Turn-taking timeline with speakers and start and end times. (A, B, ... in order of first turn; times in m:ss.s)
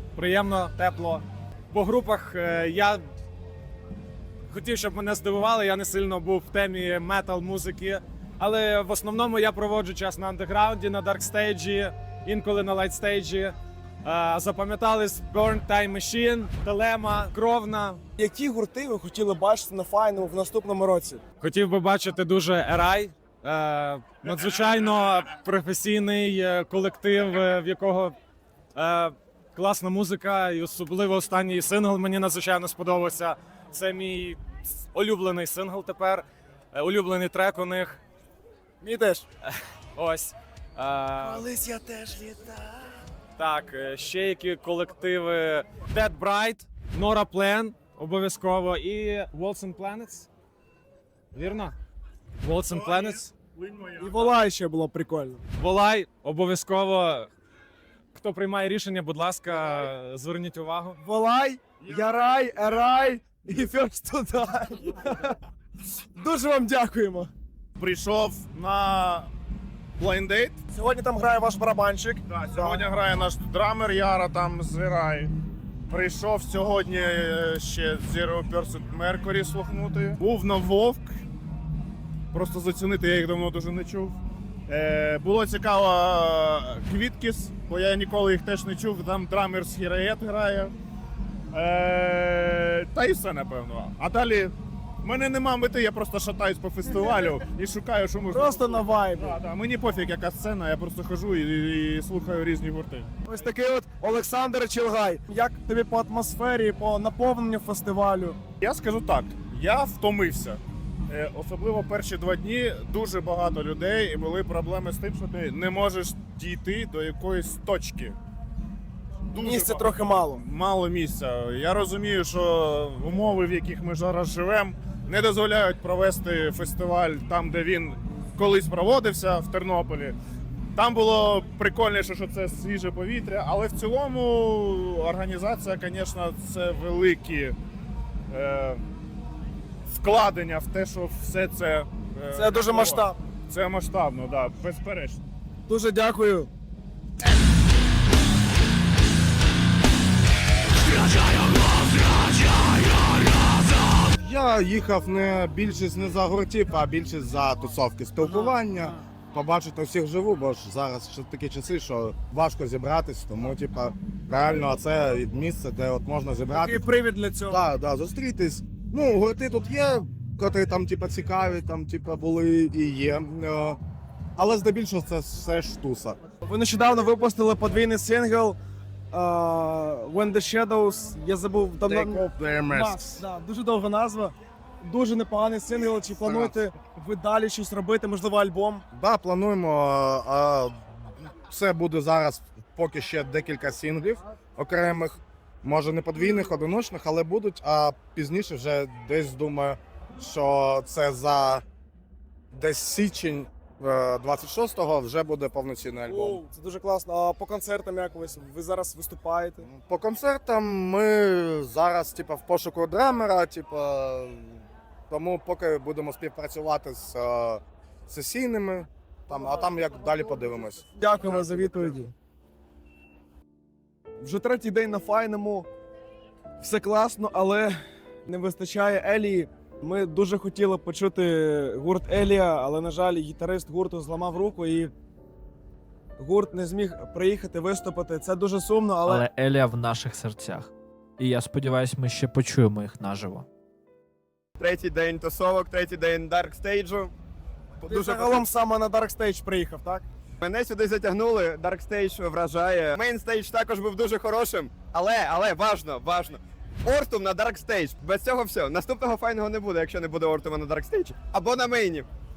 0:00.1-0:03.0 A
0:04.5-0:18.0 A
0:18.2-0:21.2 B
0:21.4-0:28.1 A
0:28.7-0:38.0 A
0:38.8-0:39.2 B
0:40.0-0:41.4 A
0:41.2-0:42.7 B
0:43.4-0:50.3 A
0:51.3-0:51.7 A
0:52.4-0:53.3 A
0:53.6-0:54.1 C
0:54.0-0:55.4 B
0:55.6-0:57.3 A
0:58.1-1:01.0 A
1:01.0-1:05.4 B
1:06.2-1:07.3 B
1:07.8-1:09.3 C
1:10.0-1:10.6 C
1:10.7-1:12.9 B
1:12.3-1:15.3 C
1:15.9-1:21.1 C
1:22.3-1:24.2 C
1:24.7-1:30.7 C
1:31.5-1:34.5 C
1:35.0-1:43.1 C
1:38.3-1:39.4 B
1:43.3-1:48.4 B
1:48.6-1:58.1 C
1:59.3-2:00.4 B
1:59.3-2:10.1 C
2:10.8-2:17.5 C
2:18.3-2:18.8 C
2:19.9-2:25.2 C
2:22.3-2:23.2 B
2:25.7-2:26.5 B
2:34.2-2:46.9 D
2:46.5-2:47.6 B
2:47.5-2:53.8 D
2:54.4-2:56.2 D
2:56.4-2:58.6 B
2:59.1-3:08.8 B
3:01.8-3:03.2 D
3:06.2-3:06.6 D
3:08.9-3:21.6 D
3:22.5-3:26.4 D
3:26.1-3:29.6 B
3:29.6-3:40.8 D
3:41.0-3:42.1 B
3:44.2-3:45.7 B
3:46.6-3:47.7 B
3:48.3-3:54.9 B
3:56.2-3:59.2 B
3:59.0-4:03.4 E
4:04.6-4:07.1 F
4:07.8-4:08.5 F
4:07.8-4:10.0 B
4:10.4-4:22.1 F